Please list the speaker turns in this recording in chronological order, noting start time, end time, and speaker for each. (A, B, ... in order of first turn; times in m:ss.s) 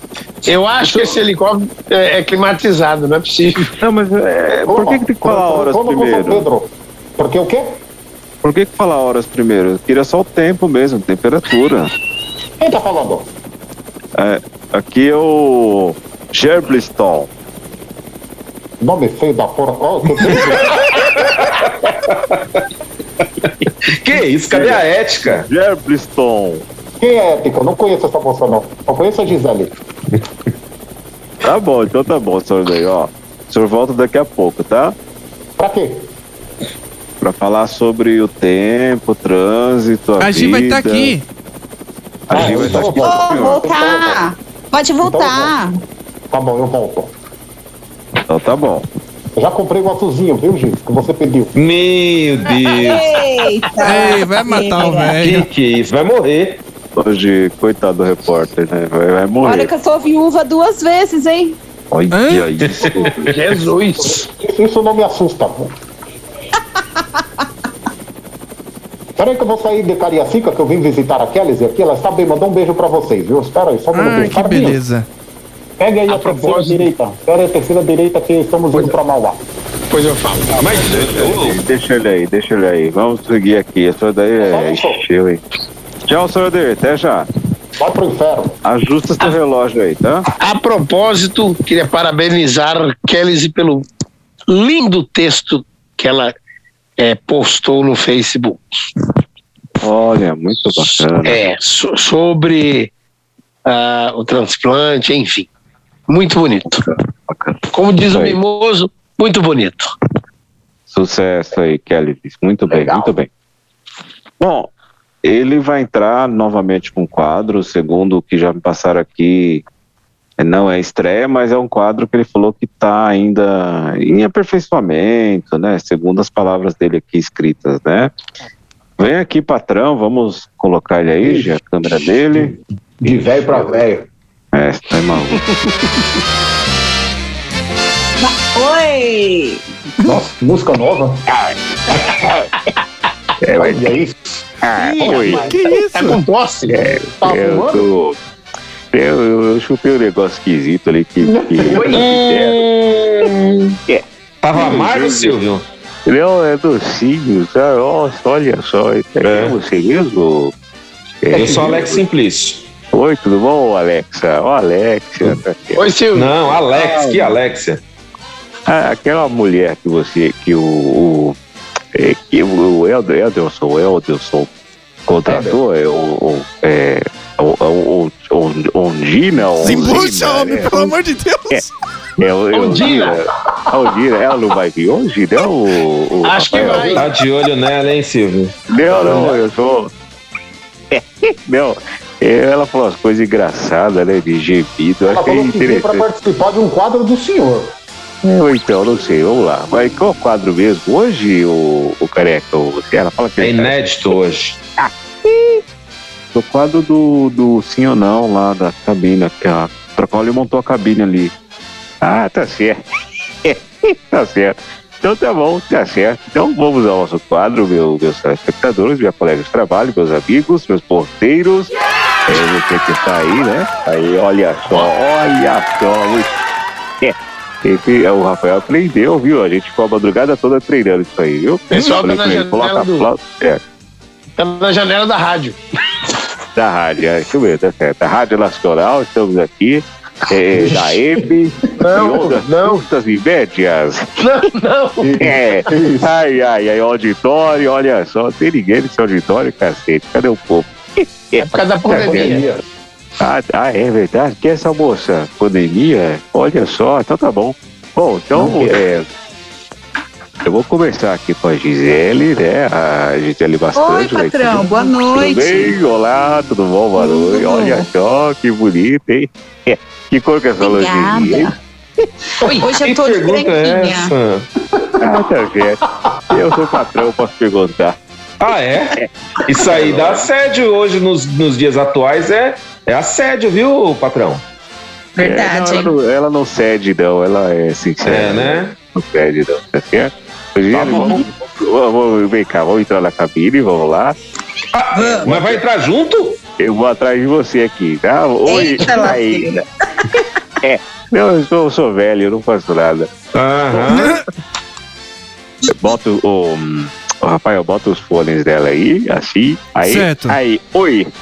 0:00.5-0:03.7 A
0:00.8-0:01.2 B
0:03.8-0:06.5 C
0:04.7-0:07.8 B
0:08.4-0:11.9 C
0:12.6-0:13.3 B
0:14.2-0:17.3 C
0:18.8-0:21.2 B
0:23.9-0:25.5 D
0:24.5-0:26.6 C
0:27.0-0:29.7 B
0:31.4-0:35.0 C
0:35.6-0:36.1 B
0:37.2-0:41.2 C
0:40.2-0:41.2 E
0:42.3-0:43.7 C
0:42.3-0:44.2 B
0:42.8-0:45.8 F
0:45.0-0:45.5 B
0:46.3-0:47.1 B
0:48.3-0:48.9 C
0:49.4-0:51.5 B
0:51.6-0:53.2 D
0:52.6-0:55.2 F
0:53.8-0:55.5 E
0:55.2-0:56.6 D
0:57.0-0:59.7 C
0:59.4-1:01.6 F
1:01.9-1:03.3 C
1:02.1-1:02.5 E
1:02.6-1:03.3 D
1:03.2-1:04.2 A
1:04.0-1:05.7 B
1:09.2-1:14.8 B
1:13.9-1:15.1 E
1:15.8-1:19.4 B
1:16.1-1:16.9 A
1:19.9-1:20.6 A
1:20.6-1:25.4 C
1:20.6-1:21.6 D
1:24.4-1:25.0 B
1:26.1-1:27.3 C
1:27.8-1:28.6 B
1:28.6-1:30.2 C
1:30.4-1:33.9 A
1:34.5-1:36.3 A
1:37.0-1:38.6 A
1:39.8-1:41.4 C
1:41.2-1:42.9 A
1:43.7-1:45.5 A
1:46.1-1:46.8 A
1:46.7-1:48.4 C
1:47.7-1:49.9 A
1:50.9-1:53.3 C
1:52.7-1:53.1 B
1:54.4-1:54.7 C
1:55.2-1:59.6 C
2:00.4-2:08.1 C
2:09.0-2:12.6 C
2:11.2-2:11.5 B
2:12.3-2:14.1 B
2:13.5-2:13.8 C
2:14.5-2:15.5 C
2:18.2-2:20.1 F
2:20.0-2:21.2 B
2:22.2-2:22.5 C
2:23.4-2:23.9 C
2:23.6-2:24.4 B
2:24.6-2:25.5 C
2:24.8-2:26.2 E
2:25.0-2:25.5 B
2:25.0-2:26.8 A
2:26.7-2:28.2 C
2:27.2-2:27.9 B
2:28.9-2:32.6 C
2:31.2-2:31.9 B
2:31.7-2:32.0 A
2:31.9-2:33.8 D
2:33.9-2:35.4 C
2:34.4-2:35.6 D
2:36.1-2:40.5 C
2:39.2-2:39.6 D
2:41.2-2:42.0 C
2:41.3-2:42.6 D
2:42.9-2:45.8 C
2:45.8-2:46.3 A
2:46.2-2:47.8 D
2:46.5-2:47.4 C
2:48.7-2:51.4 C
2:51.9-2:54.5 C
2:55.1-3:01.0 C
2:55.3-2:55.6 B
2:59.6-3:01.7 E
3:02.2-3:07.1 C
3:02.5-3:03.2 A
3:06.2-3:07.1 A
3:07.0-3:09.2 D
3:08.7-3:09.9 C
3:10.9-3:16.1 C
3:15.1-3:17.7 B
3:18.2-3:24.0 C
3:23.4-3:24.6 D
3:24.8-3:25.6 C
3:26.3-3:31.3 C
3:32.0-3:32.8 C
3:33.4-3:41.7 C
3:42.3-3:46.3 C
3:47.0-3:53.6 C
3:51.7-3:53.1 A
3:54.4-3:55.6 A
3:56.6-4:04.2 C
4:00.5-4:01.3 B
4:01.8-4:02.8 A
4:04.2-4:05.1 A
4:05.0-4:06.1 B
4:05.2-4:12.4 C
4:11.4-4:12.4 A
4:11.9-4:12.6 B
4:13.2-4:19.1 C
4:18.4-4:18.8 B
4:20.4-4:31.5 C
4:23.8-4:25.7 F
4:27.0-4:27.9 F
4:30.6-4:31.5 F
4:32.5-4:34.1 F
4:32.7-4:34.5 D
4:35.0-4:38.0 C
4:38.4-4:44.4 D
4:39.0-4:40.3 C
4:45.2-4:45.9 F
4:45.2-4:54.2 C
4:48.0-4:48.8 D
4:50.7-4:51.1 D
4:54.7-4:56.4 D
4:54.9-4:55.3 F
4:55.2-4:55.6 C
4:56.6-4:59.6 C
4:58.5-4:59.6 F
5:00.6-5:03.1 C
5:03.3-5:04.2 D
5:05.7-5:11.1 C
5:09.8-5:10.4 E